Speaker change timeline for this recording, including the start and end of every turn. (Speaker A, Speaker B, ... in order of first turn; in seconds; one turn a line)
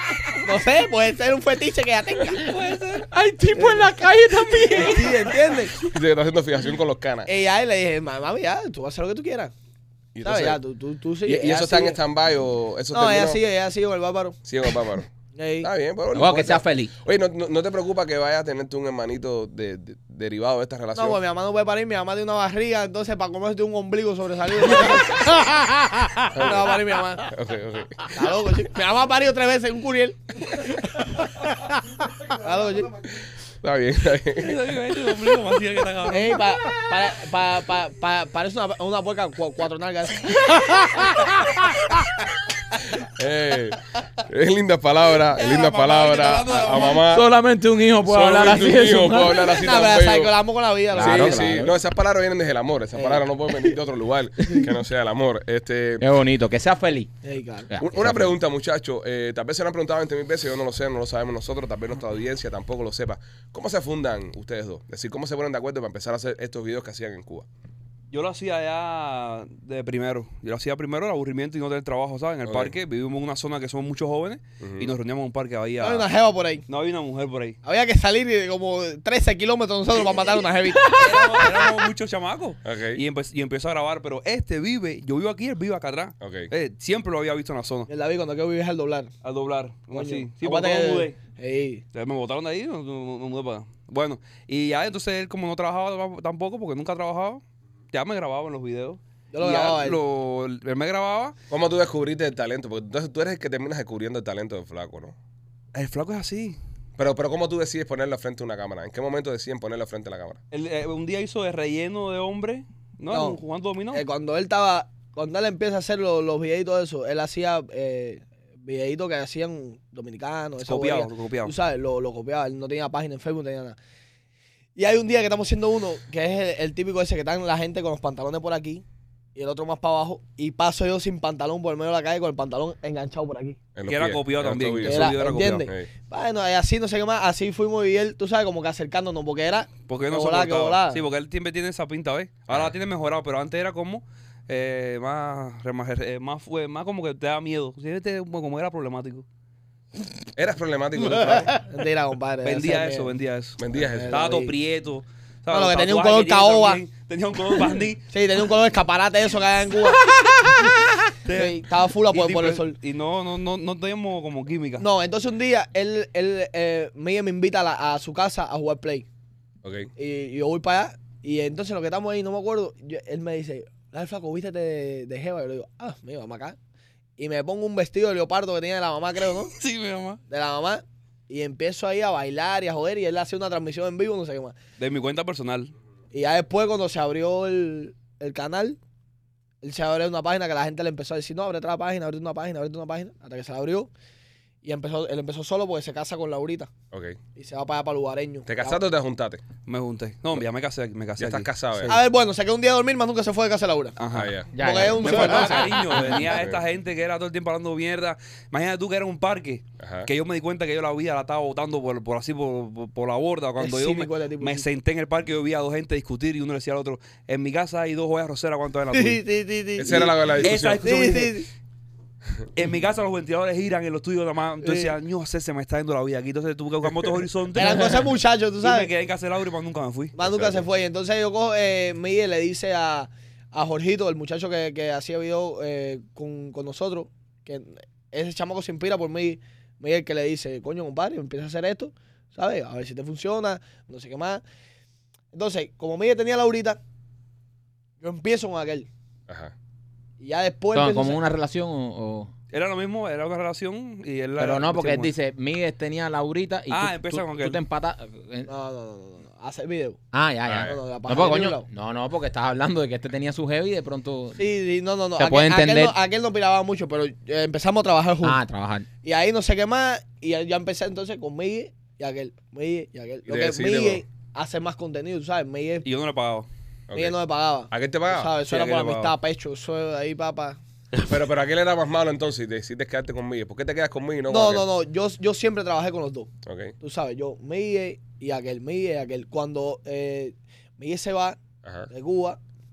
Speaker A: 0.3-2.5
Speaker B: 2.3-5.3
Speaker A: 3.5-5.8
Speaker C: 5.8-7.3
Speaker A: 7.3-9.5
Speaker C: 10.2-10.6
Speaker A: 10.2-12.0
Speaker C: 11.2-13.4
Speaker A: 12.9-14.4
Speaker C: 14.4-21.2
Speaker A: 15.3-15.7
Speaker D: 16.1-16.9
Speaker A: 20.9-25.8
Speaker C: 26.3-26.7
Speaker A: 26.3-27.3
Speaker C: 27.3-28.1
Speaker A: 28.1-31.3
Speaker A: 32.3-33.0
Speaker C: 33.6-34.5
Speaker B: 34.4-36.4
Speaker A: 36.1-41.3
Speaker C: 43.0-47.3
Speaker B: 45.4-47.1
Speaker D: 47.0-49.5
Speaker C: 48.0-50.4
Speaker A: 49.5-51.6
Speaker D: 50.9-51.7
Speaker C: 51.0-56.1
Speaker A: 53.0-53.7
Speaker D: 56.0-57.1
Speaker A: 57.2-57.7
Speaker D: 57.7-58.4
Speaker C: 57.8-67.5
Speaker B: 68.1-76.1
Speaker C: 72.5-72.7
Speaker C: 74.6-74.9
Speaker A: 75.8-76.6
Speaker B: 76.7-77.6
Speaker A: 77.6-81.7
Speaker B: 80.8-87.9
Speaker C: 82.6-83.0
Speaker C: 86.2-86.5
Speaker A: 87.9-89.1
Speaker B: 89.2-91.1
Speaker A: 89.9-91.8
Speaker B: 91.9-97.4
Speaker B: 97.9-101.3
Speaker A: 99.3-100.0
Speaker C: 101.5-105.2
Speaker B: 105.7-106.6
Speaker C: 107.0-110.4
Speaker B: 110.5-114.0
Speaker A: 113.1-113.4
Speaker A: 113.9-123.8
Speaker B: 120.6-121.5
Speaker A: 124.8-128.8
Speaker A: 129.3-133.6
Speaker C: 133.8-135.9
Speaker B: 133.9-135.7
Speaker A: 134.8-141.0
Speaker B: 139.9-149.2
Speaker C: 150.4-151.6
Speaker A: 151.6-153.1
Speaker B: 152.4-158.0
Speaker C: 153.6-154.2
Speaker A: 153.7-154.5
Speaker A: 155.5-156.8
Speaker A: 158.1-160.8
Speaker B: 161.2-164.8
Speaker A: 161.3-162.8
Speaker A: 164.8-169.1
Speaker C: 169.6-169.9
Speaker A: 170.0-176.6
Speaker A: 177.2-179.5
Speaker B: 179.5-180.2
Speaker A: 180.3-184.6
Speaker B: 184.8-185.7
Speaker A: 186.1-188.8
Speaker A: 189.6-193.9
Speaker A: 194.6-196.7
Speaker C: 196.9-197.2
Speaker A: 197.4-198.8
Speaker C: 198.5-199.4
Speaker B: 199.7-202.0
Speaker C: 201.2-202.0
Speaker A: 201.9-204.0
Speaker B: 204.0-219.2
Speaker C: 204.1-204.6
Speaker D: 204.5-205.6
Speaker A: 204.5-206.1
Speaker C: 206.2-206.6
Speaker C: 209.8-210.1
Speaker A: 213.6-214.7
Speaker A: 218.9-221.5
Speaker C: 219.8-220.9
Speaker B: 220.4-221.4
Speaker B: 222.6-228.1
Speaker A: 224.6-224.9
Speaker A: 227.6-228.9
Speaker B: 228.6-230.2
Speaker A: 230.2-244.4
Speaker C: 230.2-230.7
Speaker A: 245.3-246.8
Speaker A: 248.0-248.9
Speaker C: 249.3-249.5
Speaker A: 250.2-251.2
Speaker D: 250.7-252.3
Speaker B: 252.5-255.1
Speaker D: 254.4-258.5
Speaker B: 256.7-257.6
Speaker A: 258.5-260.0
Speaker D: 260.1-264.4
Speaker C: 260.5-260.8
Speaker A: 260.6-261.6
Speaker A: 264.4-268.4
Speaker D: 265.2-265.9
Speaker D: 268.2-268.9
Speaker A: 269.0-275.9
Speaker C: 273.3-274.0
Speaker B: 275.8-276.5
Speaker C: 276.9-277.2
Speaker A: 276.9-280.6
Speaker C: 277.7-278.3
Speaker B: 278.5-279.1
Speaker C: 281.0-284.7
Speaker A: 284.3-286.3
Speaker C: 286.4-286.8
Speaker A: 286.8-291.4
Speaker C: 291.6-291.9
Speaker A: 291.9-292.4